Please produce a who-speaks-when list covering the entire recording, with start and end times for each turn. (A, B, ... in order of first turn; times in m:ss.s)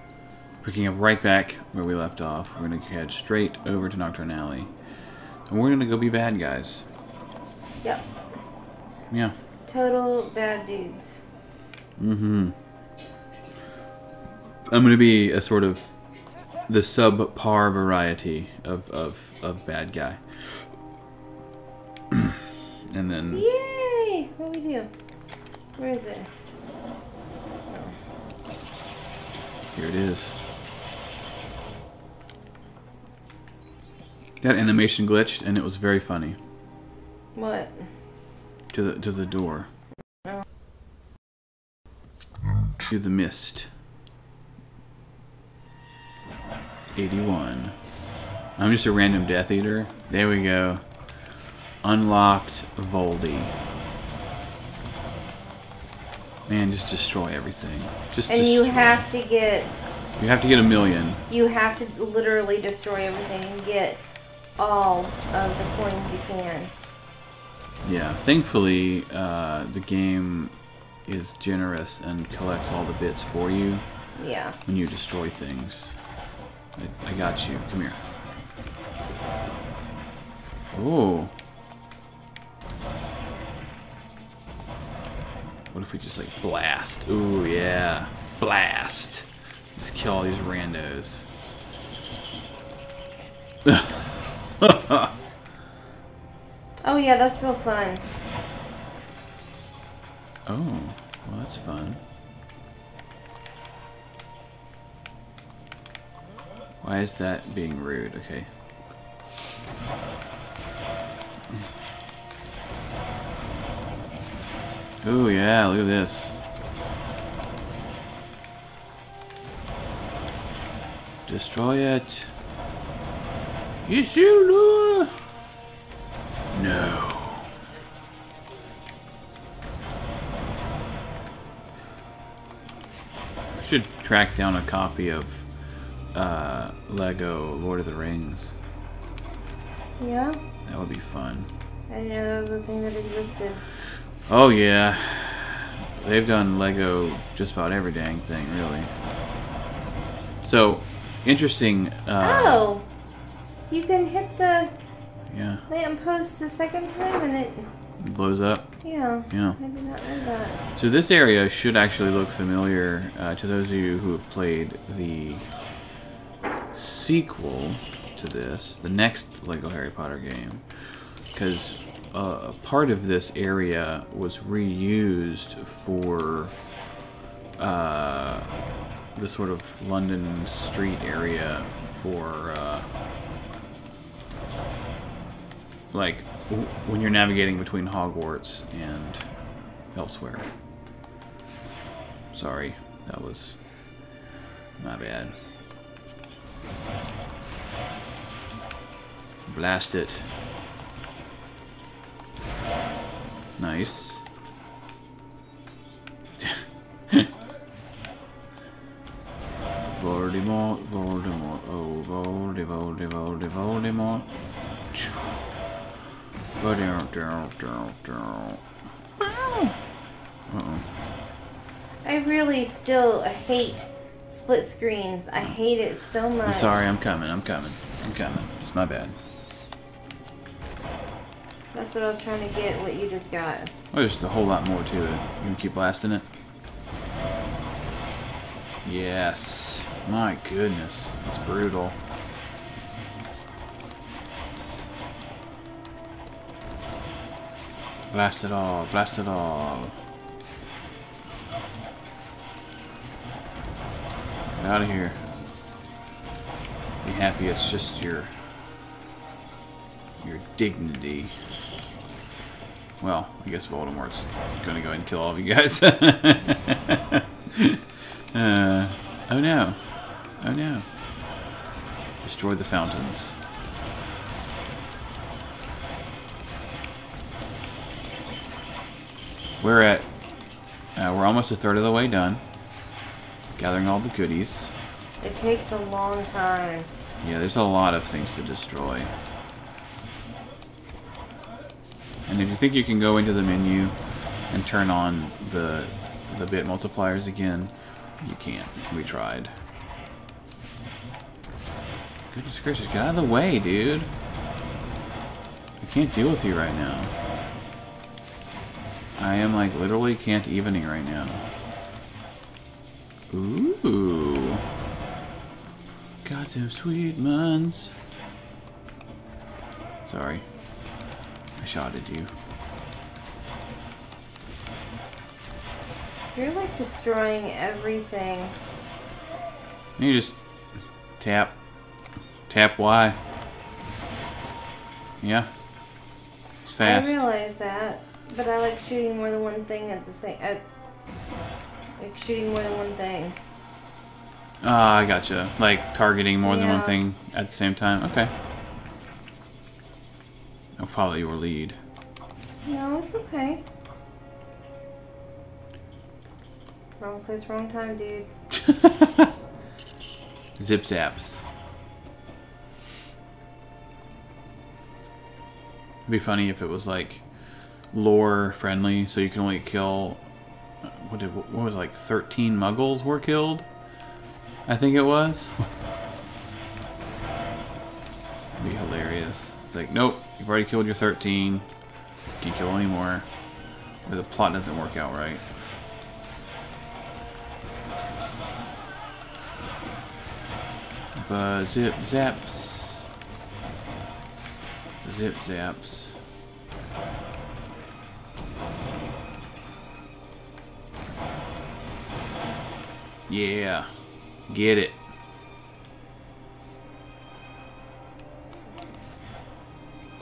0:00.6-0:04.7 A
0:05.5-0:06.9 A
0:07.8-0:08.1 B
0:09.1-0:09.4 A
0:09.7-0:11.2 B
0:12.0-0:12.6 A
0:14.7-0:15.9 A
0:16.7-0:20.6 A
0:22.1-0:22.4 A
0:22.9-0:23.4 A
0:23.3-0:24.9 B
0:25.8-0:26.3 B
0:27.7-0:28.0 B
0:29.7-0:30.4 A
0:34.4-0:36.4 A
0:37.4-0:37.9 B
0:38.7-0:39.7 A
0:42.9-0:43.7 A
0:47.0-0:47.8 A
0:48.6-0:50.8 A
0:51.8-0:53.5 A
0:56.5-0:59.0 A
0:58.3-0:59.7 B
1:00.2-1:01.2 A
1:01.3-1:04.0 B
1:04.6-1:06.7 B
1:07.8-1:13.9 A
1:14.2-1:14.6 B
1:14.6-1:16.0 A
1:16.8-1:18.0 A
1:20.7-1:21.3 A
1:25.7-1:31.2 A
1:33.7-1:34.0 A
1:34.6-1:35.1 A
1:36.8-1:38.0 B
1:40.5-1:42.0 A
1:46.8-1:48.5 A
1:55.0-1:56.4 A
2:01.3-2:02.3 A
2:03.8-2:05.1 A
2:06.5-2:07.5 A
2:13.5-2:15.5 A
2:16.1-2:18.6 A
2:20.0-2:20.4 B
2:20.7-2:21.5 A
2:21.9-2:23.6 B
2:24.3-2:28.9 A
2:30.4-2:32.6 A
2:32.2-2:32.9 B
2:33.7-2:34.7 B
2:35.3-2:35.6 A
2:35.7-2:37.7 B
2:38.0-2:38.7 A
2:38.8-2:40.6 B
2:39.3-2:39.6 A
2:40.8-2:45.5 A
2:46.7-2:56.6 A
2:57.6-2:58.5 A
2:59.1-3:02.9 A
3:05.9-3:10.5 A
3:12.3-3:13.8 A
3:14.8-3:15.4 A
3:19.5-3:20.3 A
3:23.6-3:24.3 A
3:26.4-3:27.3 A
3:29.9-3:34.3 A
3:34.9-3:35.4 A
3:36.6-3:38.6 A
3:39.2-3:39.8 A
3:40.5-3:40.9 A
3:42.0-3:46.9 B
3:46.4-3:49.2 A
3:51.7-3:53.7 B
3:53.9-3:56.3 A
3:58.8-4:02.0 A
4:08.1-4:10.0 A
4:14.6-4:15.2 A
4:17.0-4:18.4 A
4:20.2-4:21.4 A
4:23.0-4:27.8 A
4:28.3-4:30.9 A
4:32.2-4:33.4 A
4:39.6-4:40.1 A
4:41.0-4:42.4 A
4:43.6-4:44.8 A
4:45.2-4:46.9 B
4:47.2-4:49.1 A
4:52.3-4:54.0 A
4:54.5-4:59.5 A
5:02.3-5:04.1 A
5:05.8-5:07.2 A
5:09.2-5:11.5 A
5:13.3-5:14.6 A
5:16.2-5:18.0 A
5:20.0-5:20.4 A
5:21.6-5:22.3 A
5:26.3-5:28.6 B
5:30.0-5:30.4 A
5:31.2-5:31.6 A
5:32.5-5:33.2 A
5:35.2-5:35.5 A
5:36.6-5:37.2 A
5:36.8-5:40.6 B
5:42.0-5:43.4 B
5:44.6-5:48.3 A
5:46.4-5:47.0 B
5:50.8-5:51.8 A
5:52.6-5:53.6 B
5:57.0-5:58.3 B
5:58.5-5:59.3 A
6:00.6-6:01.4 A
6:06.1-6:07.3 A
6:07.9-6:10.3 A
6:10.8-6:13.7 A
6:14.7-6:15.6 A
6:18.6-6:21.7 A
6:22.4-6:23.3 A
6:24.0-6:25.4 A
6:31.2-6:33.1 A
6:35.0-6:36.2 A
6:43.3-6:43.9 A
6:44.5-6:45.0 A